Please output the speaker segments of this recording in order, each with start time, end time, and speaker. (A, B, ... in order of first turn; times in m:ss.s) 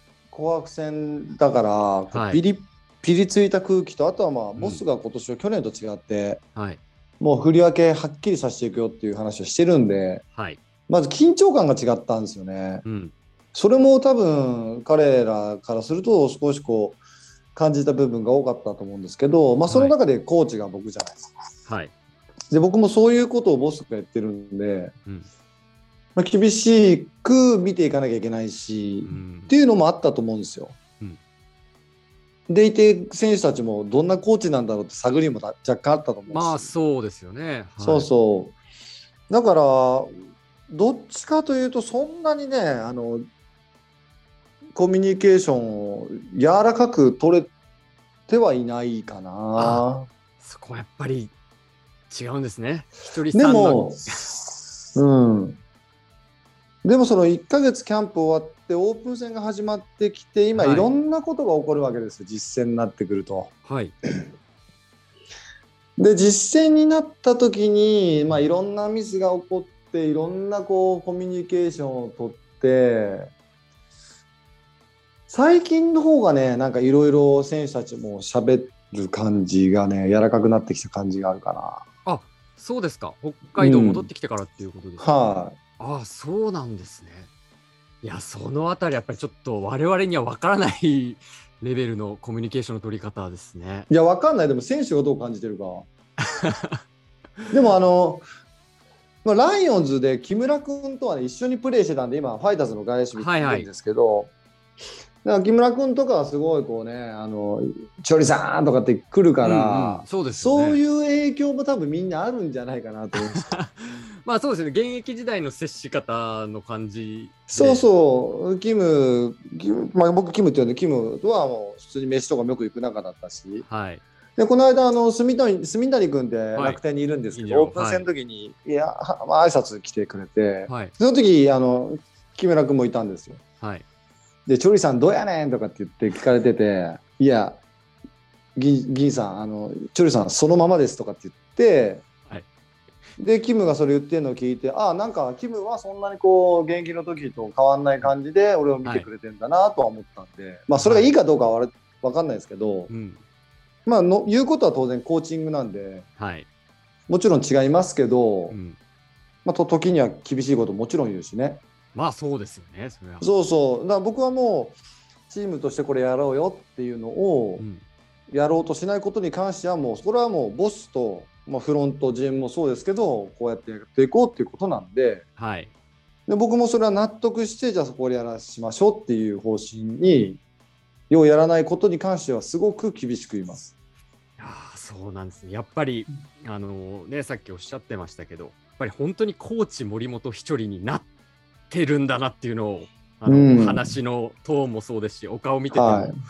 0:00.3-0:06.4 A
0:02.1-0:02.4 B
0:04.6-0:04.8 B
0:06.6-0:06.8 B
0:07.2-0:10.2 A
0:10.9-0:12.8 A
0:12.8-0:13.1 B
0:13.5-0:17.0 A
0:17.5-0:21.2 A
0:19.7-0:19.9 B
0:21.6-0:21.9 B
0:22.5-0:24.9 A
0:26.2-0:30.8 A
0:29.0-0:29.5 B
0:32.5-0:36.7 A
0:36.3-0:38.1 B
0:37.8-0:38.6 A
0:39.3-0:40.1 A
0:40.7-0:43.2 A
0:44.7-0:47.5 A
0:48.3-0:50.1 A
0:49.6-0:49.8 B
0:50.4-0:51.3 B
0:52.1-0:54.3 B
0:53.3-0:55.6 A
0:56.8-1:03.5 A
1:00.5-1:00.9 B
1:03.6-1:03.9 B
1:06.0-1:13.3 A
1:15.3-1:21.8 A
1:22.0-1:25.2 B
1:23.6-1:24.1 A
1:25.0-1:25.6 A
1:25.8-1:27.3 B
1:28.0-1:33.9 B
1:33.9-1:35.8 A
1:36.2-1:36.8 B
1:37.5-1:38.2 A
1:39.2-1:44.3 A
1:43.1-1:43.7 B
1:45.2-1:53.6 A
1:49.4-1:50.8 B
1:53.1-1:57.8 B
1:57.5-2:03.6 A
2:03.6-2:04.0 B
2:04.4-2:13.4 A
2:06.6-2:06.8 B
2:07.3-2:08.0 B
2:10.7-2:10.9 B
2:14.5-2:17.6 A
2:18.6-2:22.0 A
2:23.2-2:32.9 A
2:30.8-2:31.1 B
2:32.9-2:33.2 B
2:33.8-2:36.0 A
2:36.2-2:36.5 B
2:37.1-2:38.6 A
2:38.5-2:38.8 B
2:39.4-2:41.6 A
2:41.9-2:43.3 B
2:43.2-2:47.6 A
2:47.6-2:47.8 B
2:48.3-2:55.2 A
2:55.4-2:55.7 B
2:56.3-3:00.4 A
3:01.1-3:03.7 A
3:04.4-3:11.1 B
3:11.7-3:16.1 B
3:13.3-3:13.9 A
3:15.7-3:16.2 A